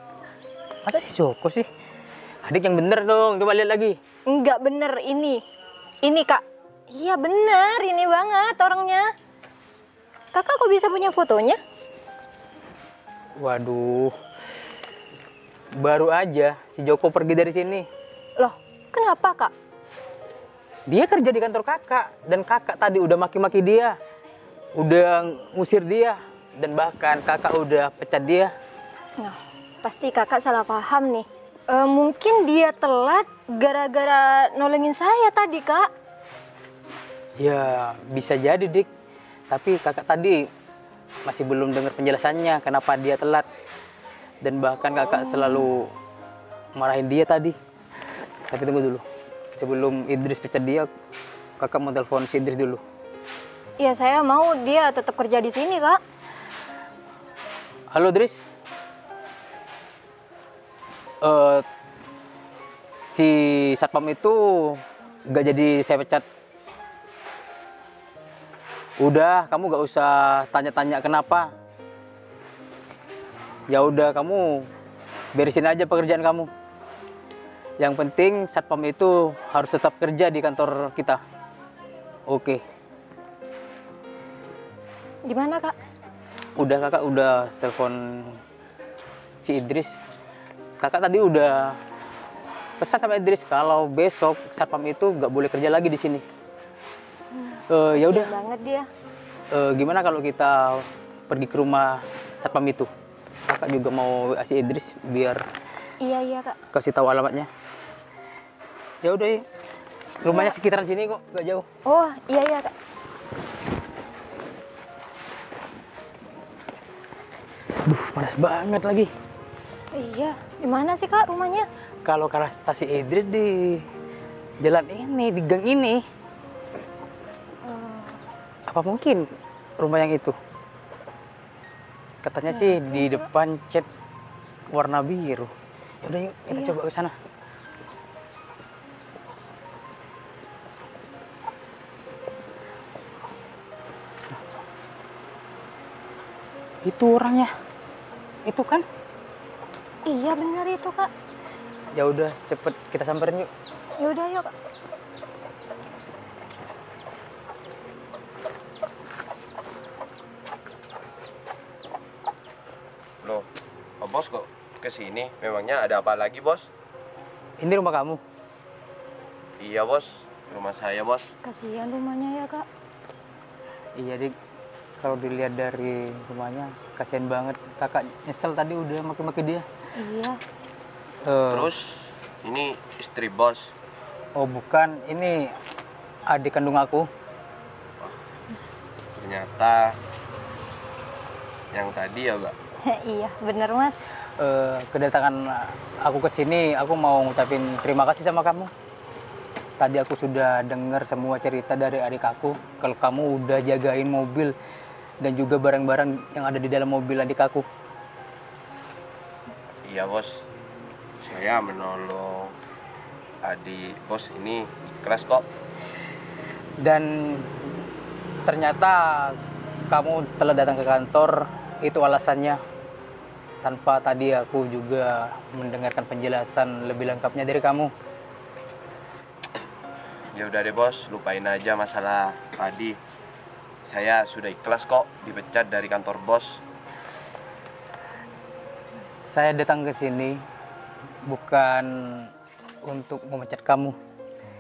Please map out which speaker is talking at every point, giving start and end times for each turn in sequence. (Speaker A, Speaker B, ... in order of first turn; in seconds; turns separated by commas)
Speaker A: 0.8-1.7, Speaker A: 2.4-4.0, Speaker B: 4.3-5.4, Speaker B: 6.0-9.1, Speaker B: 10.3-11.6, Speaker A: 13.4-14.1, Speaker A: 15.8-17.9, Speaker B: 18.4-19.5, Speaker A: 20.9-23.9, Speaker A: 24.8-28.5, Speaker B: 29.2-35.9, Speaker A: 37.4-38.9, Speaker A: 39.5-40.4, Speaker A: 41.2-43.5, Speaker A: 44.4-45.9, Speaker A: 46.8-47.5, Speaker A: 48.5-49.0, Speaker A: 49.6-50.9, Speaker A: 51.6-52.8, Speaker B: 53.8-56.0, Speaker A: 57.9-58.4, Speaker A: 61.2-61.6, Speaker A: 63.1-66.2, Speaker A: 69.0-71.5, Speaker A: 73.7-74.7, Speaker A: 75.3-76.5, Speaker A: 77.8-81.2, Speaker A: 82.3-82.6, Speaker B: 85.2-85.7, Speaker A: 86.6-88.4, Speaker A: 89.4-89.9, Speaker A: 90.8-91.8, Speaker A: 92.8-96.2, Speaker A: 97.7-98.3, Speaker B: 97.9-98.9, Speaker A: 99.5-102.9, Speaker A: 103.5-105.4, Speaker B: 106.0-106.6, Speaker A: 106.7-107.5, Speaker A: 109.0-109.4, Speaker A: 110.2-111.7, Speaker B: 110.2-110.5, Speaker B: 111.8-112.7, Speaker A: 117.8-119.1, Speaker B: 119.9-121.7, Speaker A: 122.0-123.8, Speaker A: 124.6-126.0, Speaker B: 127.6-128.2, Speaker A: 128.7-129.2, Speaker A: 129.8-130.3, Speaker A: 132.2-133.8, Speaker B: 132.5-133.2, Speaker A: 134.7-135.5, Speaker A: 136.0-137.1, Speaker A: 146.8-147.5, Speaker A: 148.4-148.8, Speaker B: 150.1-151.1, Speaker A: 151.9-153.5, Speaker B: 154.0-154.5, Speaker C: 164.0-166.7, Speaker A: 167.6-168.2, Speaker C: 169.6-171.3, Speaker B: 171.4-172.7, Speaker A: 173.9-174.3, Speaker A: 175.0-179.6, Speaker B: 179.9-180.4, Speaker A: 181.2-181.7, Speaker C: 181.5-183.7, Speaker A: 184.3-185.5, Speaker A: 186.3-187.1, Speaker C: 189.2-190.0, Speaker C: 191.7-192.5, Speaker B: 192.9-194.0, Speaker A: 194.4-198.7, Speaker A: 199.8-204.5, Speaker A: 205.2-207.7, Speaker C: 209.8-210.4, Speaker C: 211.2-212.6, Speaker C: 213.4-215.4, Speaker A: 216.8-217.5, Speaker A: 218.4-219.3, Speaker A: 219.9-222.6, Speaker A: 223.6-227.9, Speaker C: 230.3-233.0, Speaker C: 233.8-236.6, Speaker A: 239.2-240.4, Speaker A: 241.2-242.3, Speaker A: 242.8-243.9